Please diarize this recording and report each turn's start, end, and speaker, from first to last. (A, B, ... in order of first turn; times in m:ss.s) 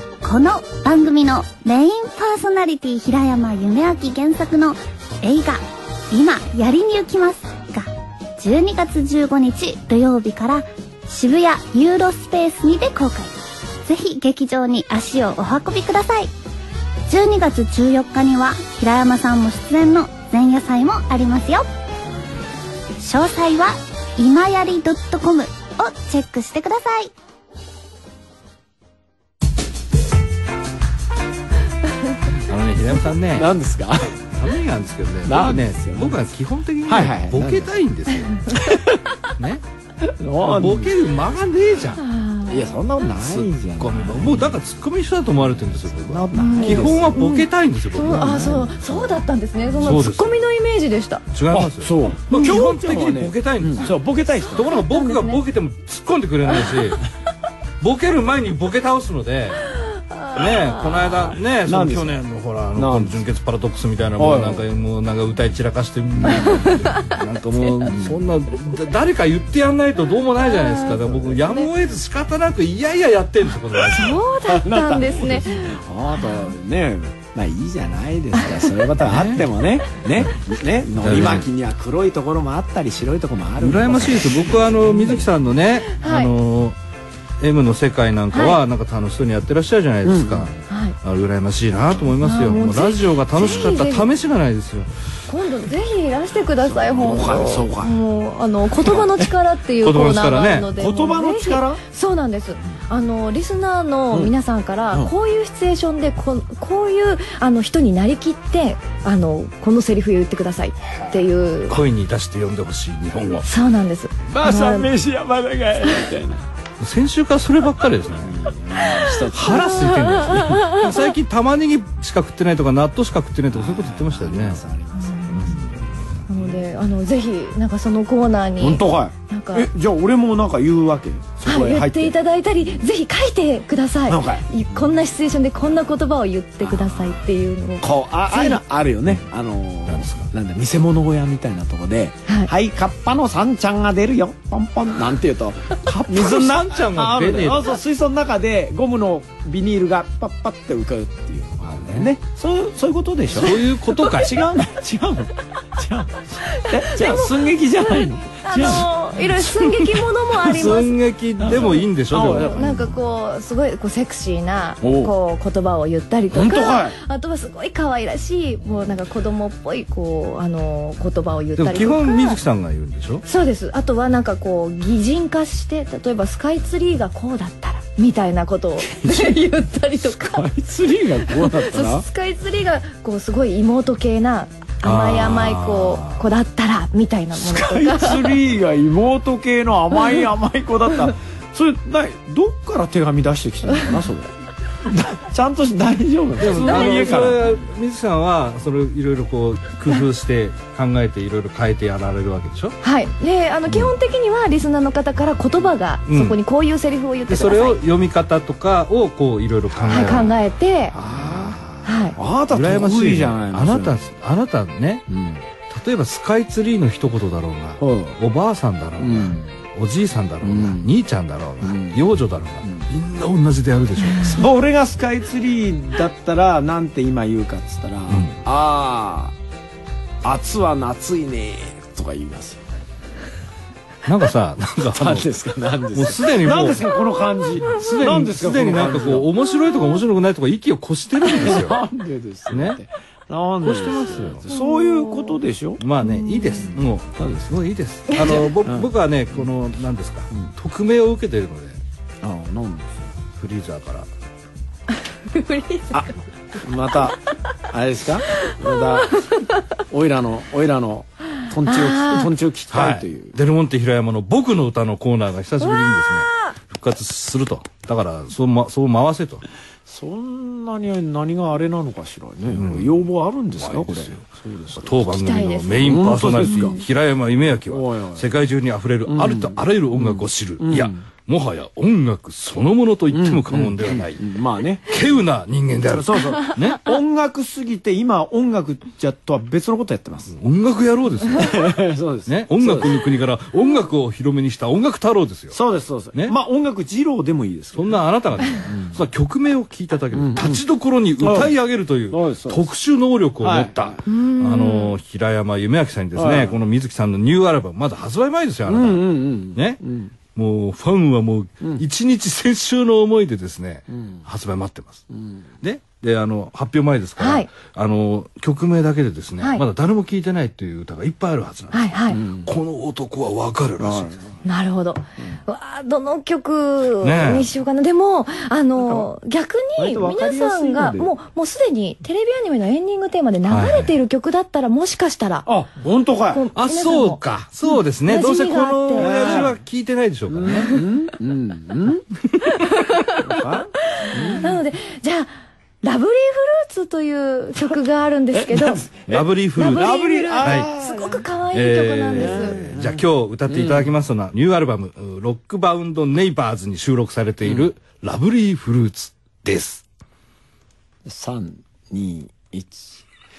0:00.2-0:16.3 A
0:17.1-0:21.7 A
0:23.0-0:27.1 A
0:32.3-0:33.5 B
0:33.3-0:34.2 C
0:34.3-0:38.7 B
0:35.2-0:36.2 C
0:36.8-0:37.7 C
0:38.5-0:39.0 C
0:39.4-0:39.6 B
0:40.0-0:41.0 C
0:40.4-0:42.0 B
0:42.0-0:42.8 D
0:42.5-0:44.6 C
0:43.2-0:48.6 B
0:45.9-0:47.2 C
0:46.3-0:51.2 D
0:48.0-0:49.0 C
0:49.8-0:50.4 B
0:51.3-0:53.9 B
0:51.5-0:54.7 C
0:54.5-0:57.0 B
0:54.7-0:55.4 D
0:57.8-0:59.7 B
1:00.3-1:14.2 B
1:01.6-1:02.2 C
1:02.7-1:03.2 C
1:04.2-1:04.7 C
1:06.2-1:06.7 C
1:06.3-1:07.9 D
1:07.9-1:08.2 C
1:10.6-1:11.7 D
1:11.1-1:11.4 C
1:13.8-1:16.5 D
1:14.4-1:25.3 C
1:19.0-1:19.5 B
1:21.0-1:21.5 B
1:23.6-1:26.8 B
1:26.0-1:26.3 D
1:27.4-1:34.9 B
1:28.3-1:28.6 D
1:30.0-1:30.5 C
1:30.7-1:31.0 D
1:32.2-1:34.1 D
1:35.3-1:51.8 D
1:36.6-1:38.0 C
1:38.8-1:39.3 C
1:39.8-1:40.7 B
1:40.7-1:41.8 C
1:51.7-1:53.5 B
1:53.4-1:54.9 D
1:54.3-1:56.5 C
1:56.8-1:58.4 B
1:58.2-2:00.6 C
1:59.3-2:04.6 B
1:59.5-2:00.6 D
2:03.5-2:05.8 C
2:05.0-2:05.6 D
2:05.3-2:06.0 B
2:06.3-2:09.7 D
2:08.6-2:12.2 C
2:11.4-2:18.6 D
2:14.1-2:14.5 C
2:16.6-2:17.1 C
2:17.8-2:38.9 C
2:19.9-2:20.3 B
2:25.9-2:27.7 B
2:31.6-2:32.1 B
2:33.3-2:34.4 B
2:36.5-2:41.0 D
2:40.3-2:40.8 C
2:40.4-2:43.0 B
2:41.4-2:42.9 C
2:41.5-2:41.8 D
2:42.3-2:52.4 D
2:44.8-2:45.1 C
2:46.3-2:47.0 C
2:51.6-2:53.2 B
2:53.3-3:00.5 D
2:58.9-2:59.4 C
3:00.0-3:02.1 C
3:01.3-3:08.3 D
3:04.8-3:06.2 B
3:07.3-3:14.3 C
3:14.8-3:17.5 C
3:16.4-3:22.8 B
3:16.6-3:17.2 D
3:22.8-3:27.8 D
3:26.1-3:26.4 B
3:27.3-3:30.4 B
3:29.7-3:30.3 C
3:29.9-3:31.0 D
3:30.9-3:34.0 C
3:31.0-3:31.6 B
3:31.8-3:32.2 D
3:32.5-3:35.0 B
3:35.1-3:35.4 C
3:35.7-3:44.4 B
3:37.8-3:38.2 C
3:39.0-3:39.6 C
3:40.4-3:40.9 C
3:41.6-3:42.0 C
3:42.6-3:42.9 C
3:44.0-3:44.4 D
3:44.2-3:49.4 C
3:48.1-3:48.4 B
3:50.2-3:52.7 C
3:54.0-3:55.3 B
3:54.9-3:59.3 C
3:55.9-3:56.9 B
3:57.7-4:01.8 B
4:01.2-4:05.8 C
4:02.5-4:02.8 B
4:03.6-4:04.4 B
4:04.5-4:05.4 D
4:05.8-4:11.8 B
4:06.0-4:06.7 D
4:06.7-4:07.6 C
4:08.2-4:09.5 C
4:12.2-4:13.1 C
4:13.3-4:14.1 B
4:15.3-4:16.1 D
4:15.9-4:19.2 C
4:18.4-4:19.4 D
4:19.9-4:23.4 C
4:21.7-4:22.3 D
4:22.7-4:29.4 B
4:25.6-4:26.6 D
4:29.9-4:35.1 C
4:32.5-4:33.0 B
4:33.6-4:34.2 B
4:34.8-4:44.2 B
4:35.1-4:36.8 D
4:35.7-4:36.8 C
4:37.7-4:38.3 C
4:39.0-4:41.0 C
4:43.1-4:45.0 C
4:44.9-4:46.9 B
4:45.8-4:50.4 C
4:50.3-4:51.7 B
4:51.3-4:53.0 C
4:52.3-4:55.6 B
4:55.5-4:59.0 C
4:57.8-5:09.8 B
5:00.1-5:00.6 C
5:01.2-5:01.6 C
5:02.1-5:02.7 C
5:03.4-5:04.0 C
5:04.1-5:05.0 D
5:06.2-5:06.6 C
5:08.7-5:10.1 C
5:10.3-5:15.0 B
5:15.1-5:15.4 C
5:15.6-5:24.2 B
5:17.2-5:17.5 D
5:21.7-5:22.2 D
5:22.1-5:22.5 C
5:23.8-5:24.3 C
5:24.4-5:35.5 D
5:27.0-5:27.5 B
5:28.8-5:29.1 C
5:29.8-5:31.1 C
5:33.5-5:33.9 B
5:35.5-5:36.5 C
5:36.3-5:37.2 D
5:36.6-5:40.8 B
5:38.1-5:39.4 D
5:38.9-5:39.6 C
5:40.3-5:42.0 C
5:42.3-5:42.6 B
5:42.7-5:43.3 D
5:43.2-5:44.6 C
5:44.0-5:45.3 D
5:45.8-5:48.9 D
5:48.3-5:51.3 C
5:49.1-5:50.7 B
5:49.6-5:52.6 D
5:51.5-5:59.8 B
5:52.2-5:53.9 C
6:01.0-6:03.0 C